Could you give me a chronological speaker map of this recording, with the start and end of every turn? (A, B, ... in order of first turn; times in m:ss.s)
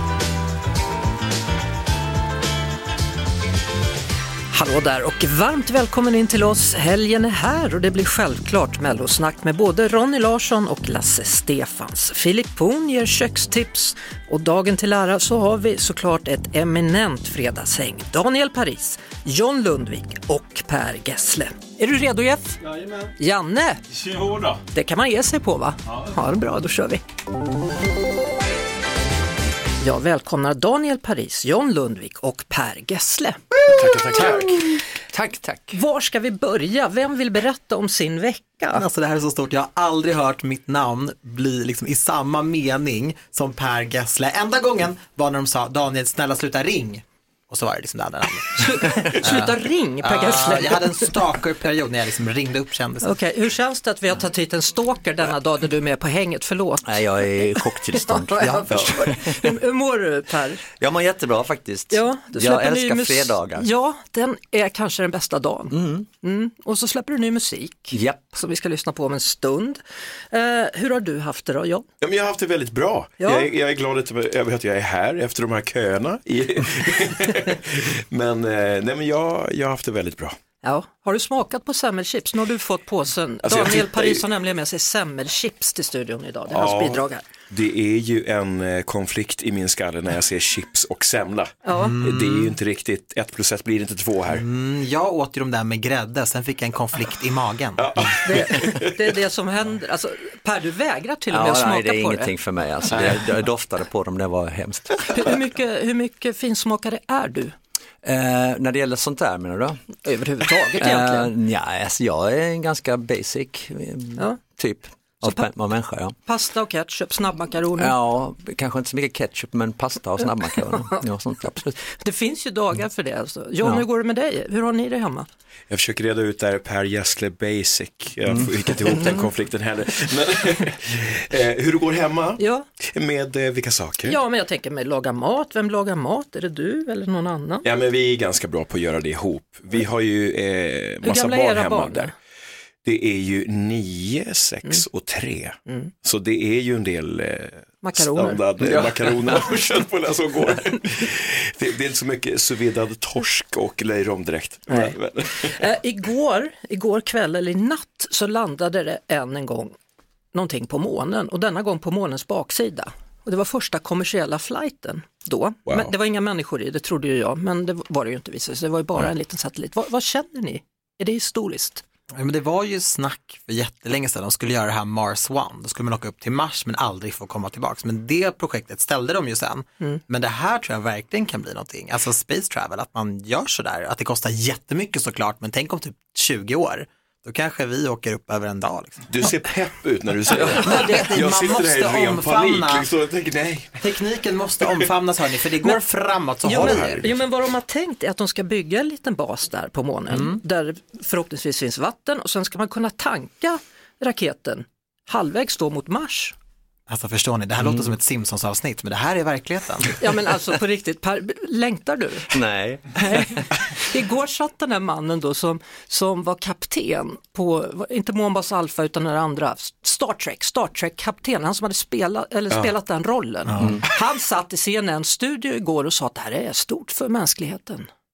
0:04.5-0:22.6 A
0:23.2-0:23.8 A
0:24.0-0:24.6 B
0:24.7-0:27.0 A
0:29.8-0:33.4 A
0:33.6-0:34.8 B
0:34.2-0:34.5 C
0:35.1-0:35.8 C
0:35.7-0:38.8 A
0:38.7-0:53.2 D
0:48.6-0:51.1 A
0:53.0-1:00.6 A
0:56.8-0:59.6 C
1:00.8-1:03.7 C
1:01.9-1:11.9 A
1:05.7-1:06.1 C
1:07.9-1:08.2 C
1:12.0-1:20.4 B
1:13.2-1:13.5 A
1:20.6-1:27.2 A
1:23.4-1:24.2 B
1:26.5-1:34.4 B
1:31.6-1:32.0 A
1:31.7-1:32.6 D
1:34.3-1:37.8 D
1:37.8-1:39.0 B
1:38.2-1:42.3 A
1:41.3-1:45.0 C
1:42.9-1:43.2 B
1:45.1-1:47.5 A
1:48.0-1:49.8 C
1:50.0-1:51.3 A
1:50.7-1:56.2 C
1:56.2-1:57.9 A
1:57.8-2:01.8 C
2:01.8-2:05.3 A
2:05.7-2:14.2 B
2:08.3-2:09.2 C
2:12.4-2:12.7 A
2:14.0-2:17.6 A
2:17.6-2:22.1 B
2:21.0-2:22.1 A
2:22.8-2:35.6 B
2:25.7-2:25.9 A
2:27.8-2:28.4 A
2:28.6-2:29.4 C
2:34.7-2:39.7 A
2:40.3-2:51.8 A
2:45.7-2:45.9 B
2:52.2-3:09.1 D
3:09.1-3:13.9 B
3:10.4-3:12.9 D
3:10.5-3:11.2 A
3:13.8-3:17.0 D
3:16.4-3:26.3 A
3:16.6-3:17.0 B
3:20.1-3:20.4 D
3:26.9-3:30.0 D
3:30.0-3:32.3 A
3:32.3-3:33.4 C
3:33.0-3:47.9 A
3:43.5-3:43.8 D